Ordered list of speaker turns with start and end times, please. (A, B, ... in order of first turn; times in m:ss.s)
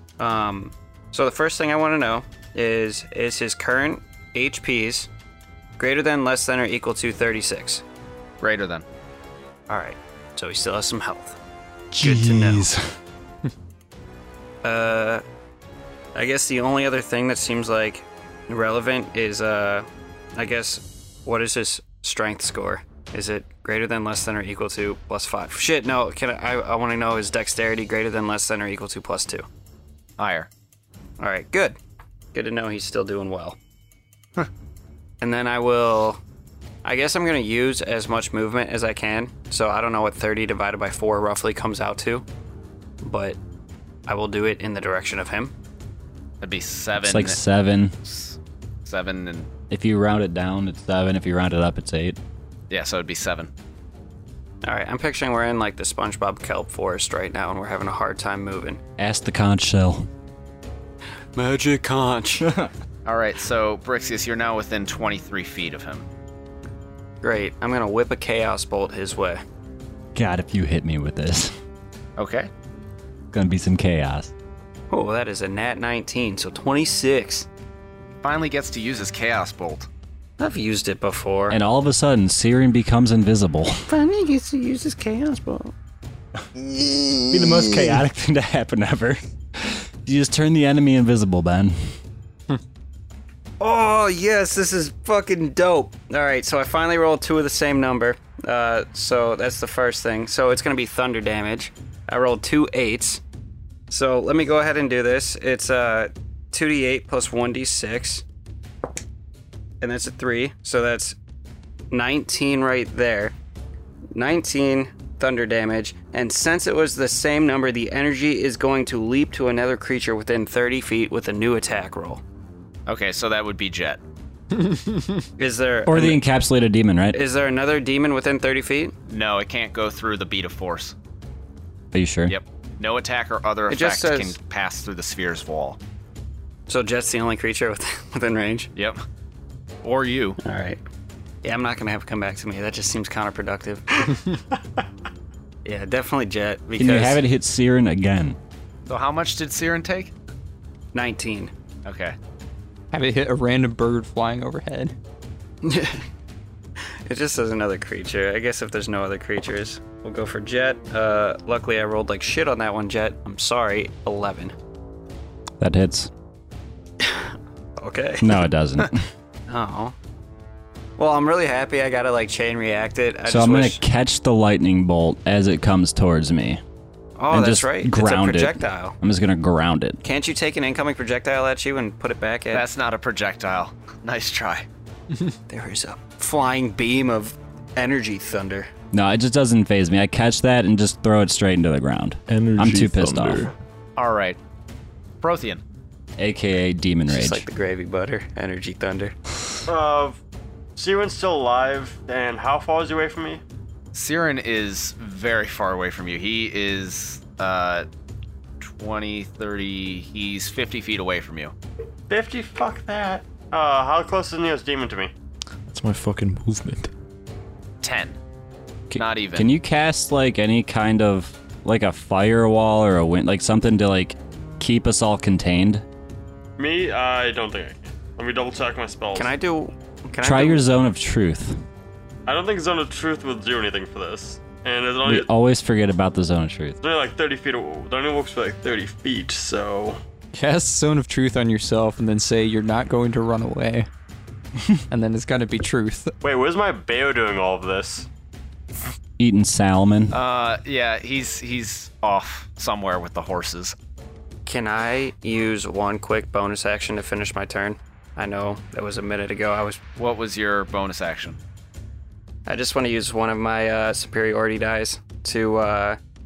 0:00.2-0:05.1 A
0:05.8-0:07.8 A
0:08.4-0:08.8 B
0:09.7-0:11.4 A
0:12.0-0:12.7 A
0:12.0-0:12.6 C
0:14.6-0:15.2 A
0:16.1-0:29.4 A
0:30.2-0:30.5 B
0:31.2-0:31.8 A
0:32.3-0:33.6 A
0:35.2-0:36.2 A
0:36.8-0:42.2 A
0:43.0-0:43.4 A
0:44.1-0:45.5 A
0:46.4-0:47.4 B
0:47.0-0:48.0 D
0:48.0-0:49.5 B
0:49.7-0:52.2 D
0:52.7-0:53.5 B
0:54.6-0:58.8 A
0:59.0-1:00.1 D
1:01.4-1:02.5 A
1:03.0-1:06.1 B
1:07.2-1:09.4 A
1:10.1-1:11.5 D
1:12.2-1:12.5 B
1:13.3-1:14.3 D
1:14.9-1:17.5 A
1:18.2-1:19.9 B
1:20.4-1:21.6 A
1:21.5-1:23.8 D
1:23.9-1:25.7 A
1:26.6-1:27.9 A
1:27.3-1:31.7 D
1:33.6-1:43.2 A
1:43.9-1:48.2 A
1:49.8-1:51.2 A
1:51.9-1:53.3 A
1:54.1-2:02.2 A
2:02.8-2:04.0 B
2:04.5-2:05.2 E
2:05.4-2:06.2 A
2:05.9-2:07.2 D
2:07.1-2:08.9 A
2:09.1-2:10.9 B
2:11.9-2:12.3 D
2:12.3-2:15.8 B
2:13.7-2:14.4 A
2:16.7-2:18.7 A
2:18.7-2:19.0 B
2:19.8-2:20.4 B
2:20.4-2:20.8 A
2:21.4-2:24.2 A
2:25.6-2:27.2 A
2:26.8-2:28.4 D
2:28.9-2:30.1 B
2:30.9-2:31.5 A
2:31.8-2:32.2 B
2:32.9-2:34.9 E
2:35.6-2:36.0 A
2:36.8-2:44.5 A
2:45.6-2:46.1 D
2:47.0-2:48.4 A
2:48.2-2:49.1 D
2:49.5-2:49.9 A
2:51.0-2:53.8 A
2:53.3-2:56.6 D
2:57.2-2:59.0 A
2:57.3-3:00.0 D
3:00.0-3:02.6 A
3:02.5-3:04.7 B
3:05.5-3:08.7 A
3:08.9-3:13.4 D
3:12.3-3:13.5 C
3:14.0-3:14.4 B
3:15.2-3:15.6 B
3:16.2-3:17.4 D
3:17.1-3:19.2 A
3:19.7-3:20.2 F
3:20.8-3:23.4 F
3:23.9-3:27.8 B
3:28.6-3:31.5 B
3:32.1-3:35.1 F
3:35.7-3:36.9 C
3:37.8-3:38.2 B
3:38.9-3:45.8 D
3:38.9-3:39.5 B
3:46.6-3:49.3 F
3:49.1-3:50.6 A
3:50.2-3:51.6 D
3:52.2-3:55.3 F
3:55.0-3:56.8 D
3:56.8-4:00.0 F
4:00.3-4:03.9 E
4:04.9-4:06.1 E
4:06.2-4:08.1 F
4:09.2-4:10.2 D
4:10.1-4:13.7 B
4:14.4-4:19.8 A
4:20.0-4:21.4 B
4:22.5-4:26.0 A